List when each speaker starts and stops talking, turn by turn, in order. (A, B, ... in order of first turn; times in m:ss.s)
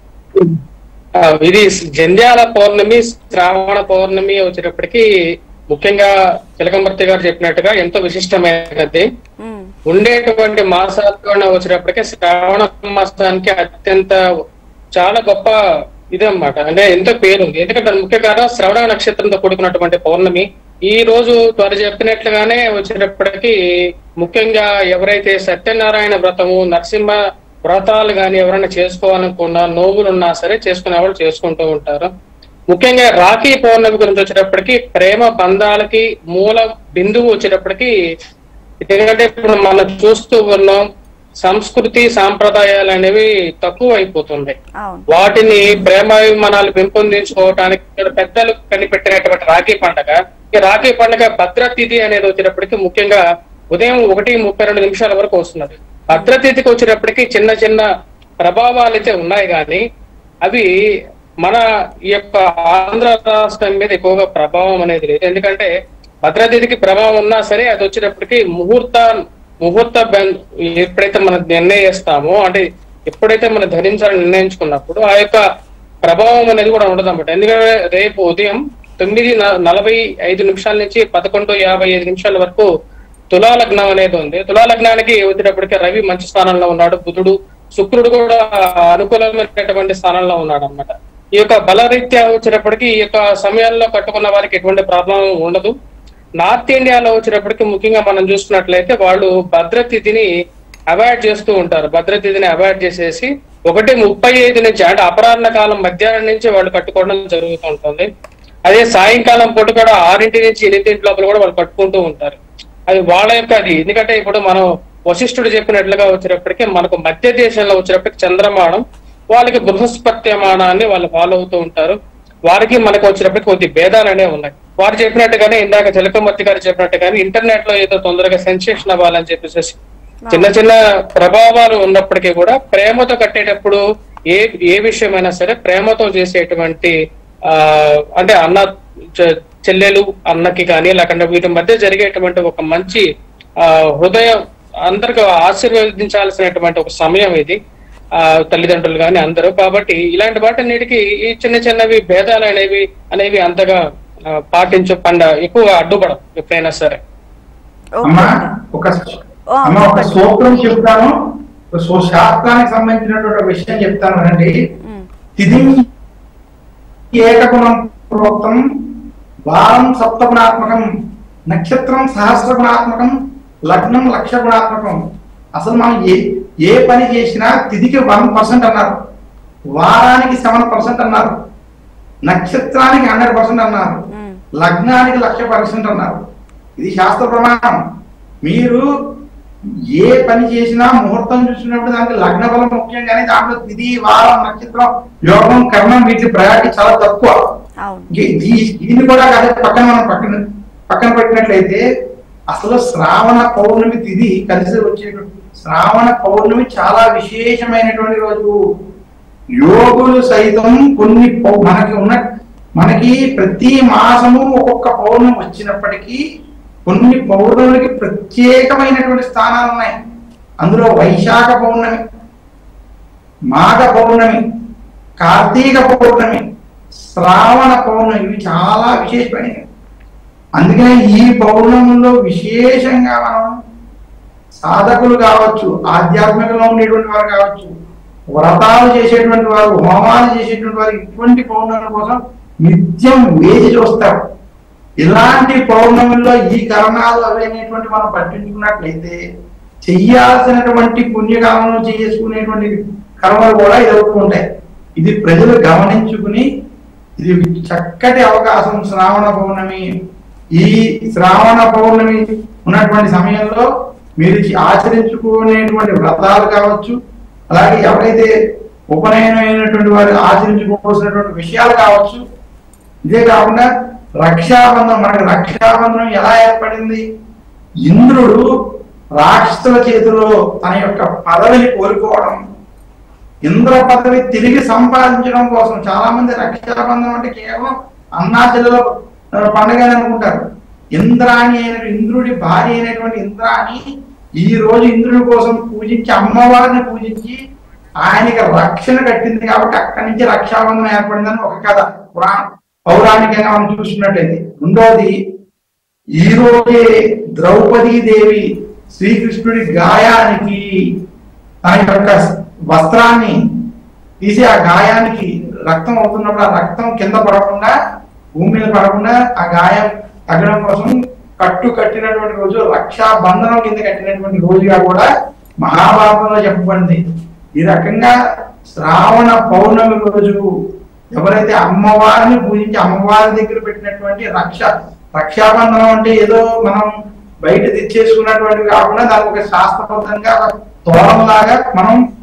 0:01.2-0:05.0 A
0:05.7-0:09.1 A
0:09.4-0:09.7 B
0:09.9-0:14.2 A
0:15.0-0:15.6 A
0:16.2-0:23.5 A
0:24.2-0:27.2 A
0:27.7-0:32.1 A
0:32.7-0:37.9 A
0:38.9-0:40.8 A
0:41.4-0:44.6 A
0:44.8-0:45.1 B
0:45.1-0:53.2 A
0:53.7-0:57.9 A
0:58.4-0:59.8 A
1:01.4-1:05.7 A
1:06.3-1:09.1 A
1:09.6-1:15.4 A
1:16.0-1:22.7 A
1:23.3-1:35.8 A
1:36.4-1:40.3 A
1:40.9-1:48.1 A
1:48.7-1:52.4 A
1:52.9-1:58.8 A
1:59.3-2:02.0 A
2:02.5-2:09.8 A
2:10.3-2:10.5 B
2:10.3-2:13.8 A
2:14.3-2:16.9 A
2:17.6-2:23.0 A
2:24.0-2:24.4 A
2:24.9-2:27.6 A
2:28.5-2:33.8 A
2:34.5-2:37.0 A
2:38.0-2:38.5 B
2:38.1-2:39.1 C
2:39.6-2:40.4 B
2:39.7-2:41.1 C
2:41.8-2:44.5 C
2:45.4-2:45.7 C
2:47.1-2:48.6 C
2:49.5-2:50.9 C
2:51.5-2:53.1 C
2:53.7-2:55.0 C
2:55.6-2:58.9 C
2:59.8-3:01.3 C
3:02.3-3:04.0 C
3:04.1-3:04.4 B
3:04.6-3:06.2 C
3:06.8-3:07.7 C
3:08.4-3:08.8 C
3:10.0-3:17.3 C
3:17.8-3:18.1 B
3:18.2-3:20.4 C
3:20.9-3:21.8 C
3:22.5-3:28.5 C
3:29.6-3:32.2 C
3:32.8-3:36.2 C
3:36.9-3:39.9 C
3:40.6-3:42.0 C
3:43.5-3:44.4 C
3:45.2-3:46.4 C
3:47.2-3:49.6 C
3:50.6-3:53.5 C
3:54.6-3:57.7 C
3:58.4-4:04.2 C
4:05.0-4:09.2 C
4:09.9-4:14.4 C
4:15.0-4:16.4 C
4:17.2-4:19.8 C
4:20.6-4:23.7 C
4:24.2-4:27.0 C
4:27.5-4:28.3 C
4:28.9-4:32.2 C
4:33.1-4:33.6 C
4:34.2-4:37.0 C
4:37.9-4:38.4 C
4:39.2-4:42.4 C
4:43.5-4:48.8 C
4:49.5-4:50.4 C
4:51.0-4:53.8 C
4:54.4-4:57.4 C
4:58.0-5:05.1 C
5:06.2-5:06.8 C
5:07.4-5:10.6 C
5:11.6-5:12.2 C
5:12.7-5:13.4 C
5:14.2-5:17.7 C
5:18.4-5:25.0 C
5:25.6-5:27.0 C
5:27.6-5:28.1 C
5:28.8-5:30.4 C
5:31.1-5:36.9 C
5:37.4-5:42.0 C